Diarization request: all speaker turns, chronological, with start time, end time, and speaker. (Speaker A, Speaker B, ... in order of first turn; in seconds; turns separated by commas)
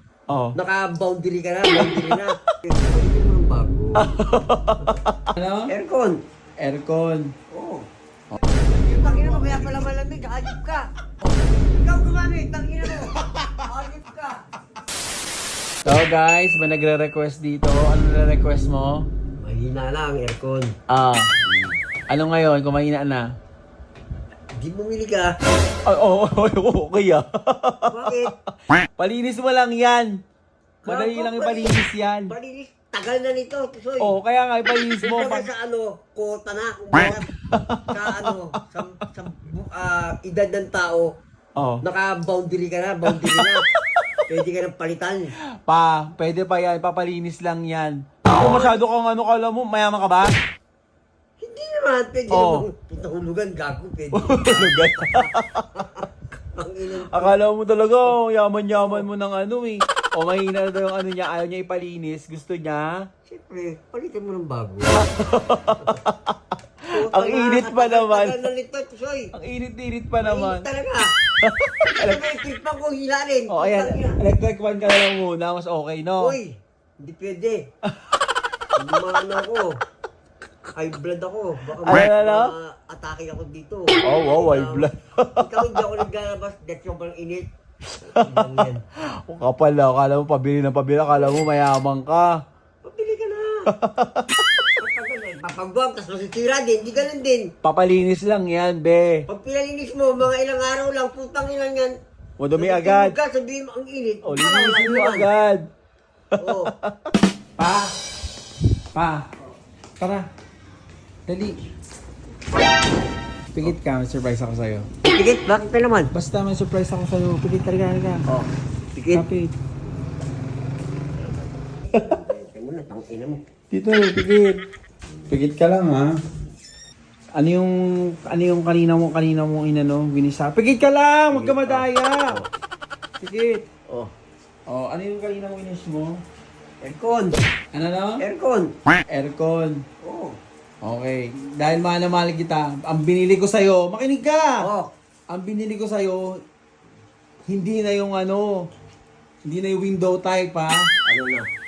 Speaker A: 0.3-0.6, Speaker B: 0.6-4.2, Speaker A: 1.8-2.2, Speaker A: 4.0-5.7, Speaker B: 4.8-5.0, Speaker B: 5.7-6.2, Speaker A: 6.6-7.3, Speaker B: 7.5-7.9, Speaker A: 8.3-9.9, Speaker B: 9.0-10.8, Speaker B: 11.7-14.4, Speaker A: 13.2-13.6, Speaker A: 15.8-19.1, Speaker B: 19.4-20.8, Speaker A: 20.9-21.3, Speaker B: 21.5-21.7, Speaker A: 22.1-23.3, Speaker B: 24.6-25.3, Speaker A: 25.9-30.1, Speaker B: 27.9-28.3, Speaker B: 30.8-34.2, Speaker A: 30.9-32.3, Speaker A: 34.0-35.5, Speaker B: 35.0-37.3, Speaker A: 37.0-38.3, Speaker B: 37.9-41.1, Speaker A: 41.6-41.8, Speaker B: 41.8-43.6, Speaker A: 43.1-44.2, Speaker B: 44.3-45.3, Speaker A: 45.6-50.4, Speaker B: 48.3-48.8, Speaker B: 51.4-57.4, Speaker A: 52.3-52.7, Speaker A: 54.1-55.6, Speaker A: 57.1-63.1, Speaker B: 58.7-59.1, Speaker B: 63.3-65.1, Speaker A: 65.0-66.4, Speaker B: 66.9-69.3, Speaker A: 67.0-68.4, Speaker A: 69.3-70.7, Speaker B: 70.2-71.1, Speaker A: 71.4-72.2, Speaker B: 72.0-74.2, Speaker A: 73.5-76.4, Speaker B: 76.2-77.6, Speaker A: 77.9-78.2, Speaker B: 78.8-79.7, Speaker B: 80.8-84.9, Speaker A: 81.9-82.5, Speaker A: 84.1-85.6, Speaker B: 85.4-87.5, Speaker A: 88.0-88.6, Speaker B: 88.0-88.8, Speaker A: 89.2-92.3, Speaker B: 92.8-93.7, Speaker A: 93.7-94.8, Speaker B: 94.8-97.5, Speaker A: 97.6-99.2, Speaker B: 99.3-101.9, Speaker A: 102.4-103.2, Speaker B: 102.6-105.3, Speaker A: 104.2-105.6, Speaker A: 106.3-108.0, Speaker B: 106.4-106.7, Speaker A: 108.9-109.3, Speaker A: 110.0-110.3, Speaker A: 111.3-111.6, Speaker A: 113.5-114.9, Speaker B: 115.0-116.1, Speaker A: 116.1-118.3, Speaker B: 118.3-119.2, Speaker A: 119.1-119.5, Speaker B: 121.2-123.4, Speaker A: 123.7-124.6, Speaker A: 125.3-126.2, Speaker A: 127.3-132.4, Speaker B: 131.3-132.5, Speaker A: 133.2-133.7, Speaker A: 134.7-136.2, Speaker B: 136.8-137.4, Speaker A: 137.7-138.2, Speaker B: 138.2-138.7, Speaker A: 139.1-139.8, Speaker B: 140.0-140.4, Speaker A: 140.8-144.7, Speaker B: 144.6-144.9, Speaker A: 145.3-146.4, Speaker A: 147.5-148.7, Speaker A: 149.5-150.9, Speaker B: 151.1-151.5